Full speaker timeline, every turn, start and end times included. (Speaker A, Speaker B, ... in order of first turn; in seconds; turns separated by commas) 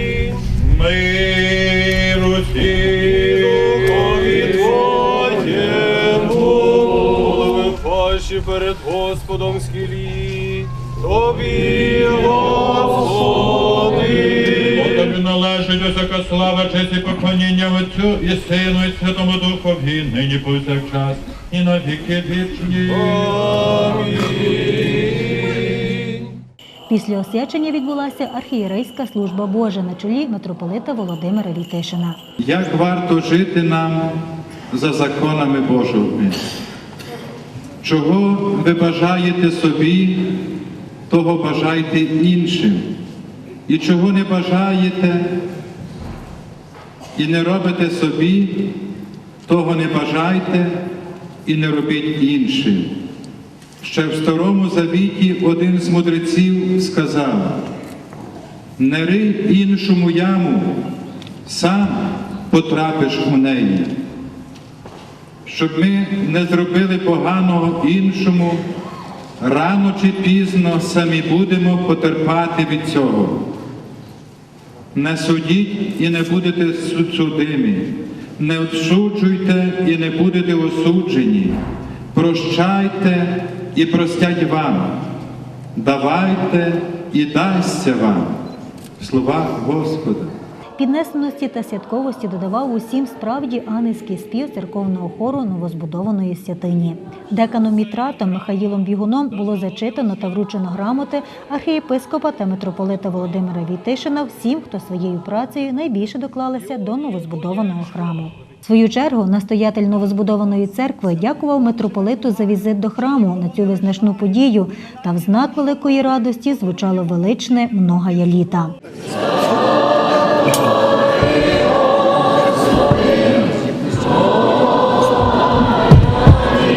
Speaker A: 0.4-7.5, Speaker B: 4.8-6.0, Speaker B: 6.8-14.4, Speaker A: 14.1-24.3, Speaker C: 26.9-32.2, Speaker D: 32.4-36.4, Speaker D: 37.8-40.3, Speaker D: 41.1-42.9, Speaker D: 43.7-45.4, Speaker D: 47.1-48.8, Speaker D: 49.5-50.8, Speaker D: 51.5-53.0, Speaker D: 53.8-57.6, Speaker D: 58.8-60.9, Speaker D: 61.5-64.0, Speaker D: 65.5-68.6, Speaker D: 69.4-73.5, Speaker D: 74.9-81.6, Speaker D: 82.1-85.0, Speaker D: 85.8-88.4, Speaker D: 89.0-90.3, Speaker C: 90.8-118.8